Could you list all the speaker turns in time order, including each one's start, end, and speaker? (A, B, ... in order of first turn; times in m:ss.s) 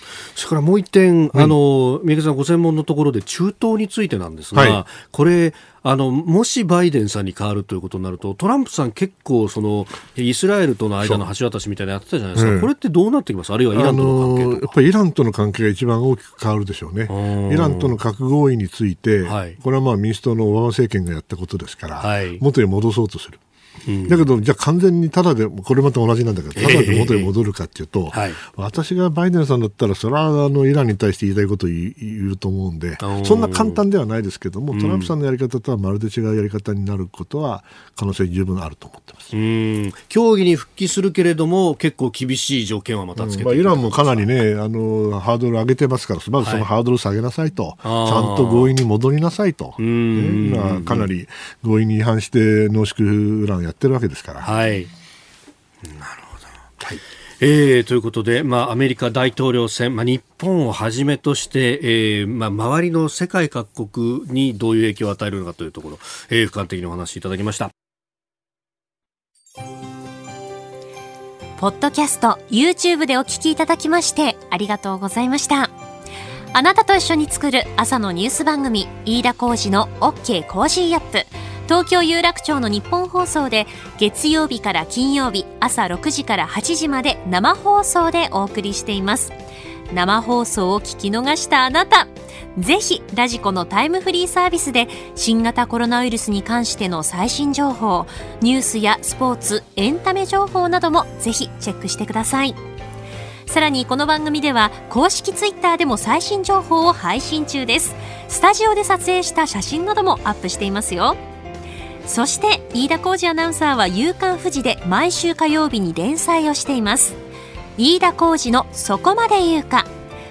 0:00.3-0:14.7 A
0:04.5-0:04.8 B
0:12.3-0:12.7 B
0:13.7-0:23.4 B
0:17.1-0:18.0 A
0:19.2-0:19.6 A
0:22.0-0:22.4 A
0:23.9-0:24.3 A
0:24.1-0:39.3 B
0:26.6-0:27.3 A
0:28.1-0:28.4 A
0:33.0-0:33.8 A
0:34.7-0:35.1 A
0:39.3-0:44.3 A
0:43.2-0:54.5 B
0:46.4-0:46.7 A
0:47.8-0:48.7 A
0:49.8-0:51.1 A
0:54.4-0:54.9 A
0:55.8-1:07.7 A
1:11.6-1:15.7 C
1:16.5-1:29.3 C
1:29.9-1:42.6 C
1:43.5-1:51.2 C
1:52.0-1:57.2 C
1:57.8-1:59.9 C